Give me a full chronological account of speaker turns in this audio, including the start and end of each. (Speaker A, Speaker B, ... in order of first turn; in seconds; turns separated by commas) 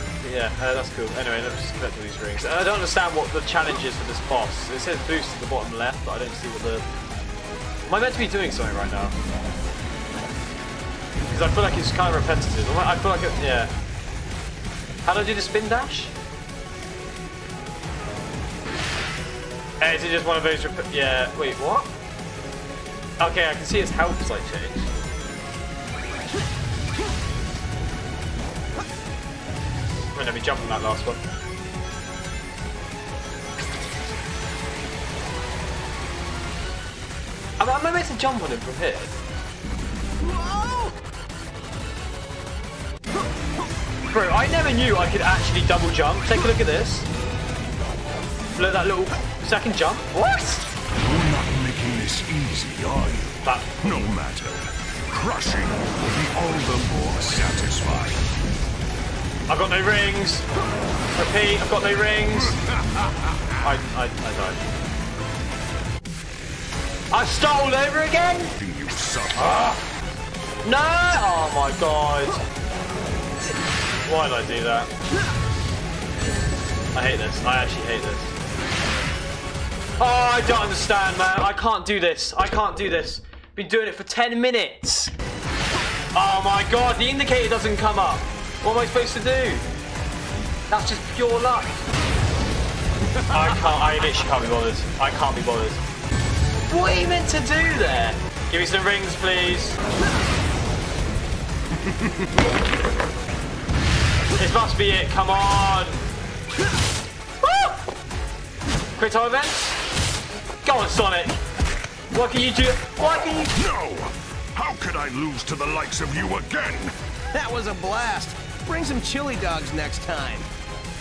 Speaker A: 0.2-6.9, Speaker A: 7.9-9.2, Speaker A: 11.3-13.7, Speaker A: 15.1-16.1, Speaker A: 19.8-21.9, Speaker A: 23.2-24.9, Speaker A: 30.1-31.2, Speaker A: 37.6-39.2, Speaker B: 40.2-41.0, Speaker A: 44.1-47.1, Speaker A: 48.5-50.7, Speaker C: 51.0-58.3, Speaker A: 53.4-53.8, Speaker A: 59.5-60.5, Speaker A: 61.1-62.6, Speaker A: 63.6-64.6, Speaker A: 67.1-68.5, Speaker C: 68.6-69.8, Speaker A: 69.4-69.8, Speaker A: 70.6-72.4, Speaker A: 74.1-74.9, Speaker A: 76.9-78.3, Speaker A: 80.0-85.1, Speaker A: 86.1-89.7, Speaker A: 90.7-91.8, Speaker A: 93.2-95.8, Speaker A: 96.7-99.8, Speaker A: 104.4-106.1, Speaker A: 107.4-107.8, Speaker A: 109.0-109.8, Speaker A: 110.6-111.4, Speaker A: 112.1-113.6, Speaker C: 113.6-116.9, Speaker B: 117.3-120.5